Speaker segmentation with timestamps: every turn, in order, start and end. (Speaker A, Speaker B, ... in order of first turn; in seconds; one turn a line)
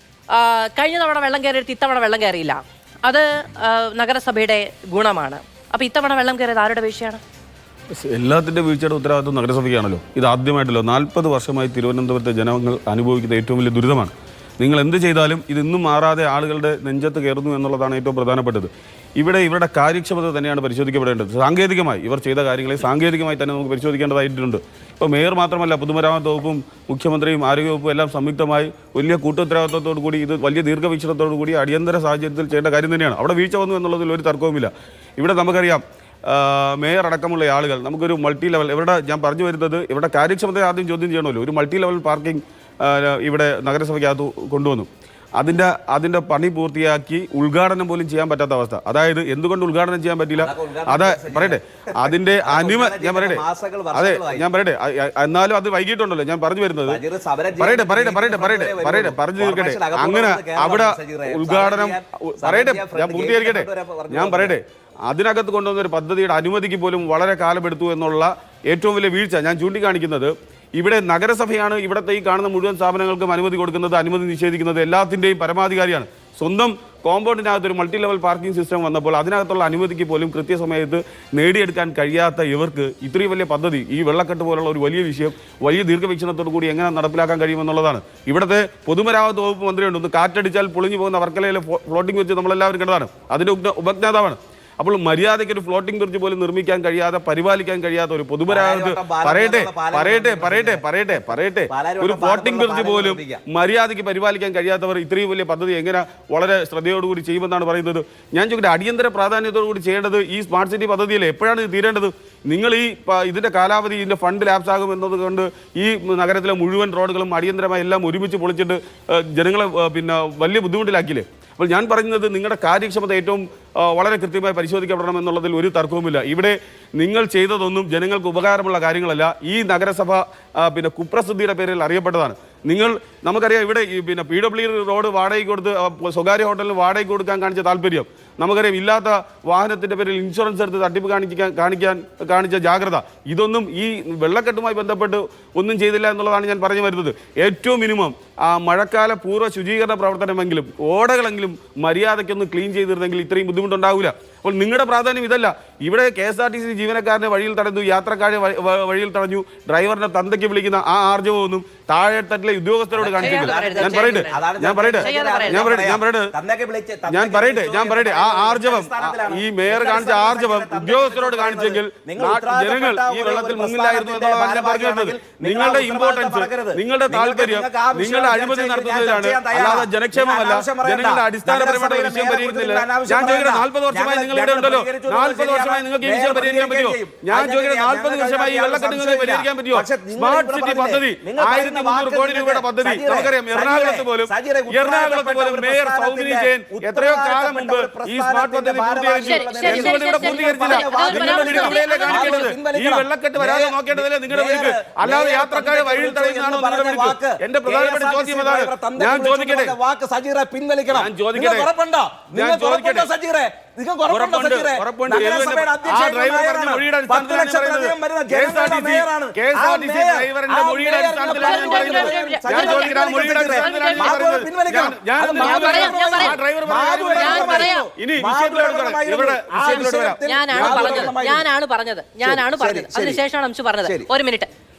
Speaker A: 0.3-7.2
Speaker B: 8.0-57.0
Speaker C: 50.4-54.5
Speaker C: 56.9-64.6
Speaker B: 57.6-166.3
Speaker C: 98.5-103.4
Speaker C: 162.9-231.5
Speaker A: 163.2-164.3
Speaker A: 165.0-165.7
Speaker B: 167.1-209.8
Speaker A: 199.2-202.5
Speaker B: 210.9-211.7
Speaker B: 212.3-213.1
Speaker B: 214.1-231.2
Speaker A: 221.4-224.2
Speaker A: 225.4-226.4
Speaker A: 227.1-227.9
Speaker A: 229.9-234.5
Speaker C: 232.2-233.2
Speaker C: 233.8-234.1